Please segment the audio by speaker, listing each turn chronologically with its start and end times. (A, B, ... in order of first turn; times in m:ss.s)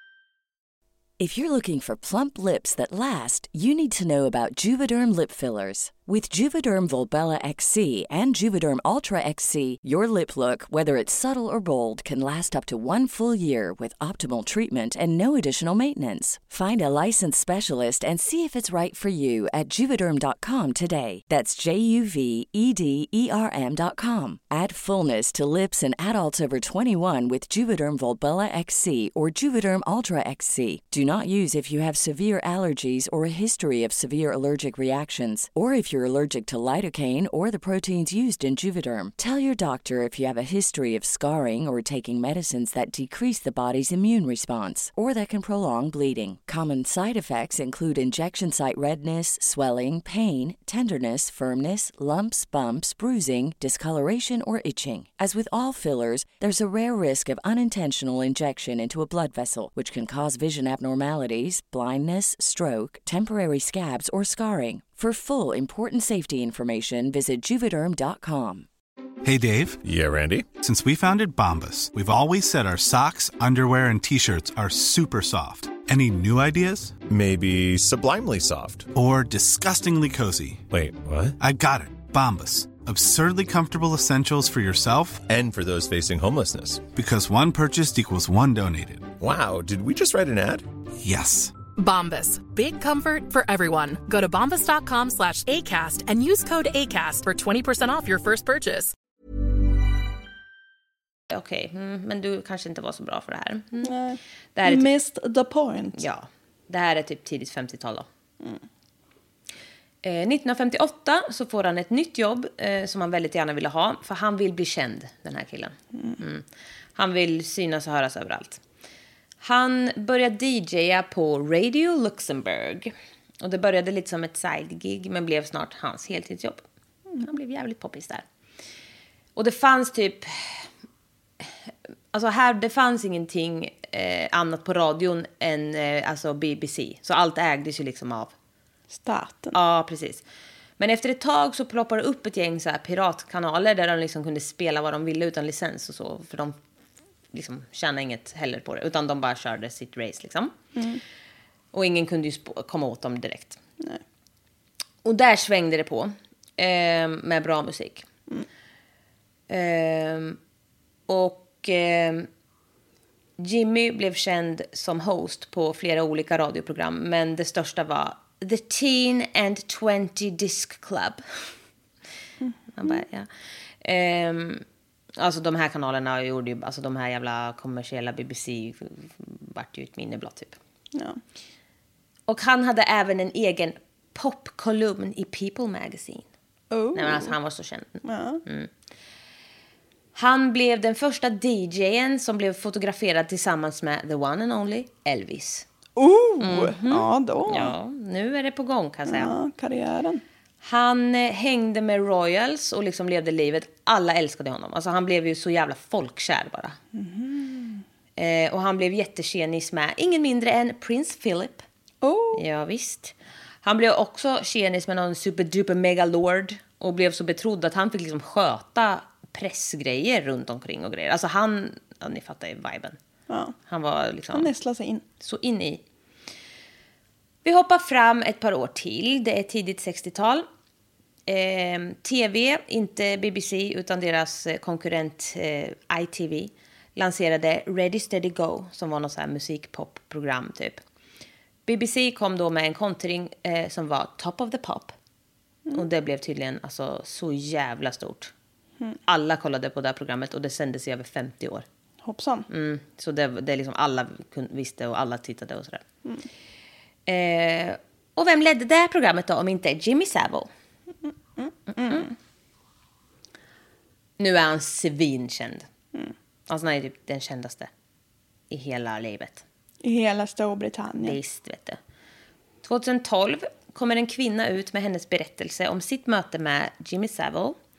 0:01.2-1:08.7 A
1:09.2-1:09.8 B
1:09.8-1:10.5 C
1:10.6-1:17.0 B
1:17.1-1:18.9 C
1:18.9-1:20.6 B
1:20.7-1:21.4 C
1:21.4-1:25.2 B
1:25.3-1:26.8 C
1:26.9-1:29.1 B
1:29.2-1:30.6 C
1:31.0-1:31.6 B
1:31.8-1:38.9 D
1:41.3-1:44.0 E
1:43.8-1:46.0 F
1:44.6-1:44.9 E
1:46.0-1:48.1 E
1:50.0-1:58.6 E
1:55.9-1:56.2 F
1:59.4-2:06.6 E
2:07.2-2:08.2 E
2:09.4-2:10.7 E
2:12.1-2:18.3 E
2:18.9-2:19.6 F
2:19.5-2:20.2 E
2:20.8-2:26.6 E
2:27.3-2:30.5 E
2:30.8-2:31.0 F
2:31.7-2:33.6 E
2:35.0-2:38.1 E
2:39.5-2:40.4 E
2:41.1-2:42.3 E
2:43.4-2:51.2 E
2:52.4-2:53.0 F
2:52.7-2:53.3 E
2:53.8-2:54.6 E
2:55.2-3:00.6 E
3:00.9-3:01.2 F
3:02.3-3:06.3 E
3:06.7-3:07.4 F
3:06.9-3:08.7 E
3:08.0-3:08.4 F
3:10.2-3:15.7 E
3:16.0-3:17.7 F
3:16.4-3:19.3 E
3:19.1-3:20.2 F
3:20.6-3:26.8 E
3:26.9-3:27.8 F
3:28.2-3:31.7 E
3:32.0-3:32.4 F
3:32.3-3:43.0 E
3:43.3-3:43.6 F
3:43.7-3:44.5 E
3:44.3-3:45.0 F
3:45.2-3:45.8 E
3:47.4-3:50.5 E
3:51.3-4:00.8 E
4:01.7-4:05.0 E
4:05.7-4:08.3 E
4:09.1-4:11.6 E
4:12.0-4:12.5 F
4:12.5-4:15.8 E
4:17.1-4:20.5 E
4:21.0-4:22.1 F
4:24.2-4:25.7 E
4:26.5-4:27.7 E
4:28.5-4:29.4 E
4:29.8-4:31.2 F
4:31.0-4:31.8 E
4:32.6-4:37.6 E